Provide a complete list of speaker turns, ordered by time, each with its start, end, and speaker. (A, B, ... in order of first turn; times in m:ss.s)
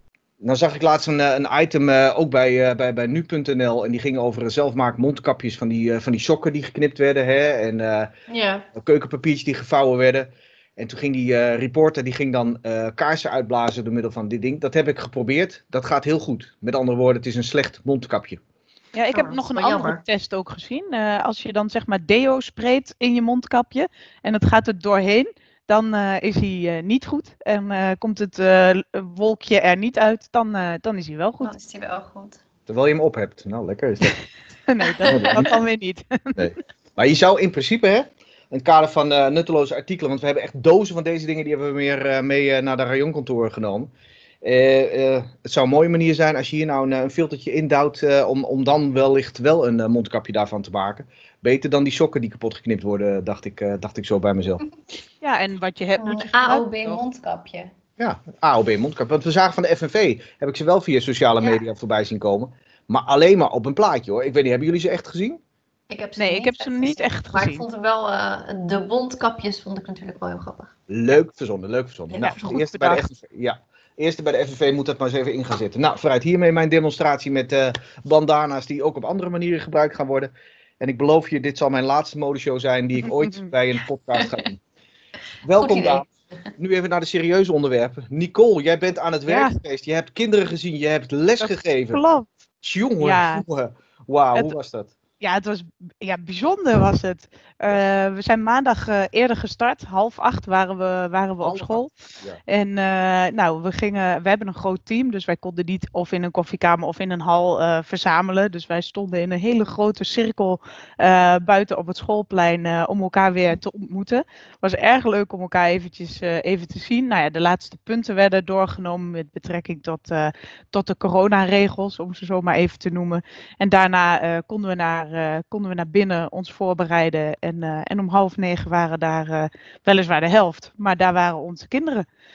0:00.4-0:08.1 A
0:08.3-0:08.7 B
0:08.7-0:18.4 A
0:18.9-0:31.5 C
0:19.1-0:20.0 B
0:31.4-0:32.4 B
0:32.7-0:34.2 A
0:34.7-0:36.5 C
0:34.9-0:35.5 B
0:35.1-0:35.5 A
0:36.4-0:43.9 A
0:44.4-0:54.6 A
0:55.2-0:57.0 C
0:56.0-0:57.7 B
0:58.0-1:05.4 A
1:05.9-1:10.7 B
1:06.2-1:07.6 C
1:10.9-1:24.6 A
1:12.1-1:12.5 B
1:12.2-1:13.0 C
1:23.2-1:23.5 C
1:24.1-1:24.4 B
1:25.4-1:26.0 A
1:25.5-1:26.1 B
1:26.6-1:32.0 A
1:29.3-1:29.5 C
1:31.4-1:32.3 C
1:32.6-1:34.9 A
1:33.0-1:33.4 C
1:35.2-1:41.9 C
1:41.4-1:42.4 A
1:42.5-2:12.0 C